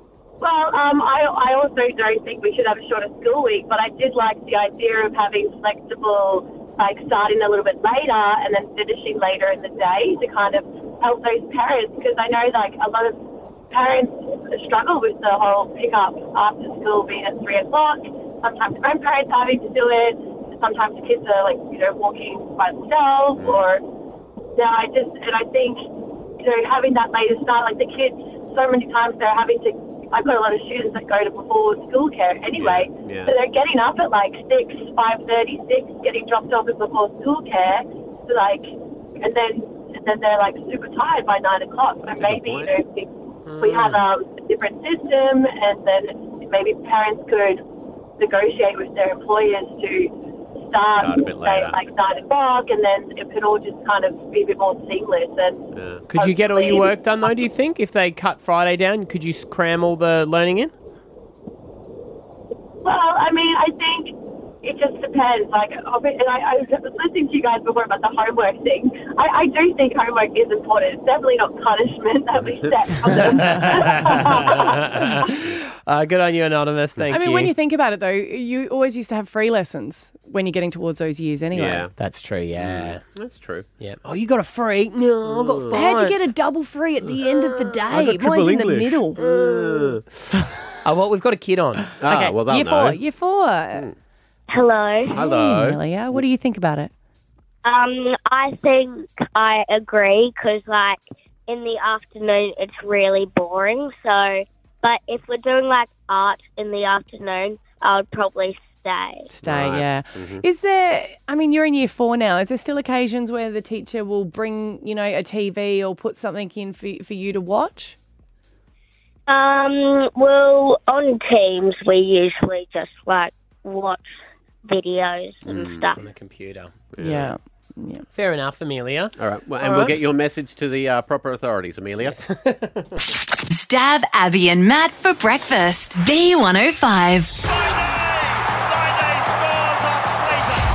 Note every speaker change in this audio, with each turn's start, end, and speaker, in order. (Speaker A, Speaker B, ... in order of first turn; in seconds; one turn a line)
Speaker A: 0.4-23.9
Speaker B: 23.4-23.6
Speaker A: 24.5-47.6
Speaker B: 32.5-33.3
Speaker B: 42.0-42.7
Speaker C: 43.5-44.0
Speaker A: 48.2-56.9
Speaker B: 51.0-51.8
Speaker B: 55.7-56.1
Speaker C: 56.1-60.7
Speaker A: 62.8-74.8
Speaker C: 73.3-77.5
Speaker D: 77.1-81.9
Speaker B: 81.5-81.9
Speaker C: 82.0-83.0
Speaker B: 82.6-83.7
Speaker C: 83.8-86.2
Speaker B: 85.2-85.7
Speaker D: 85.7-90.0
Speaker B: 87.1-90.0
Speaker C: 90.8-91.9
Speaker B: 92.0-93.0
Speaker D: 92.0-93.9
Speaker E: 94.5-95.2
Speaker D: 95.1-96.9
Speaker B: 95.1-96.2
Speaker E: 97.6-109.3
Speaker D: 109.3-118.0
Speaker B: 109.4-110.4
Speaker E: 119.3-124.0
Speaker E: 124.7-126.0
Speaker B: 125.5-125.9
Speaker C: 126.0-126.7
Speaker B: 126.9-127.3
Speaker D: 127.0-128.1
Speaker C: 128.1-129.9
Speaker B: 129.2-132.2
Speaker C: 132.0-133.0
Speaker F: 133.5-137.3
Speaker B: 139.5-140.2